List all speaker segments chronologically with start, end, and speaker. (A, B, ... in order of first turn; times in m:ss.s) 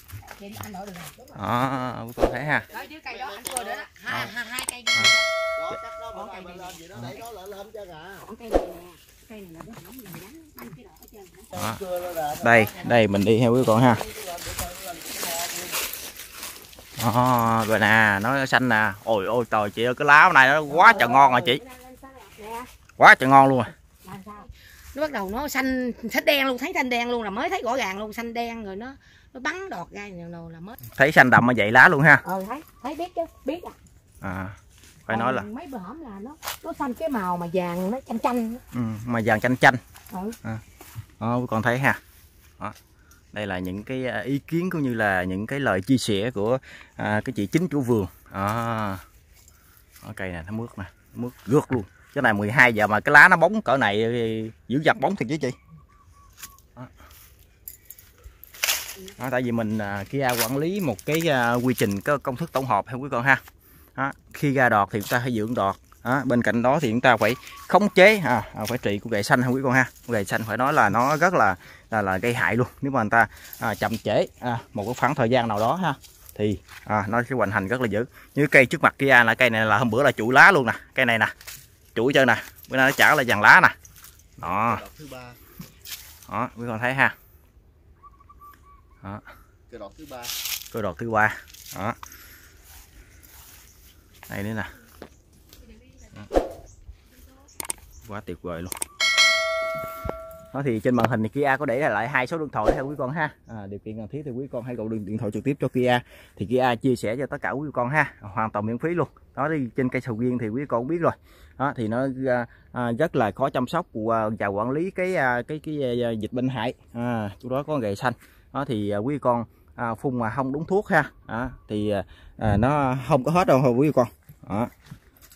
0:00.3-0:01.4 A
0:01.4-0:02.6 B
0:02.7-0:03.8 C
0:02.7-0:05.3 A
0:04.1-0:04.3 B
0:05.6-0:08.2 C
0:06.1-0:07.2 A
0:06.9-0:07.2 B
0:08.2-0:11.6 A
0:11.5-0:11.8 B
0:11.6-0:12.6 C
0:12.4-0:14.0 B
0:14.1-0:15.6 C
0:17.0-0:21.6 B
0:20.7-0:22.7 A
0:23.0-0:23.7 B
0:24.0-0:30.7 A
0:31.0-0:32.2 B
0:32.2-0:33.8 A
0:34.2-0:35.5 B
0:35.1-0:38.6 A
0:38.7-0:39.8 B
0:41.2-0:42.0 B
0:43.3-0:49.0 B
0:50.0-0:55.5 B
0:59.2-1:03.4 B
1:04.0-1:21.3 B
1:22.0-1:23.7 B
1:24.4-1:24.8 B
1:24.4-1:25.4 C
1:26.3-1:27.1 B
1:29.7-1:30.3 C
1:30.7-1:32.0 B
1:34.3-1:34.7 B
1:38.1-1:38.7 B
1:40.5-2:04.7 B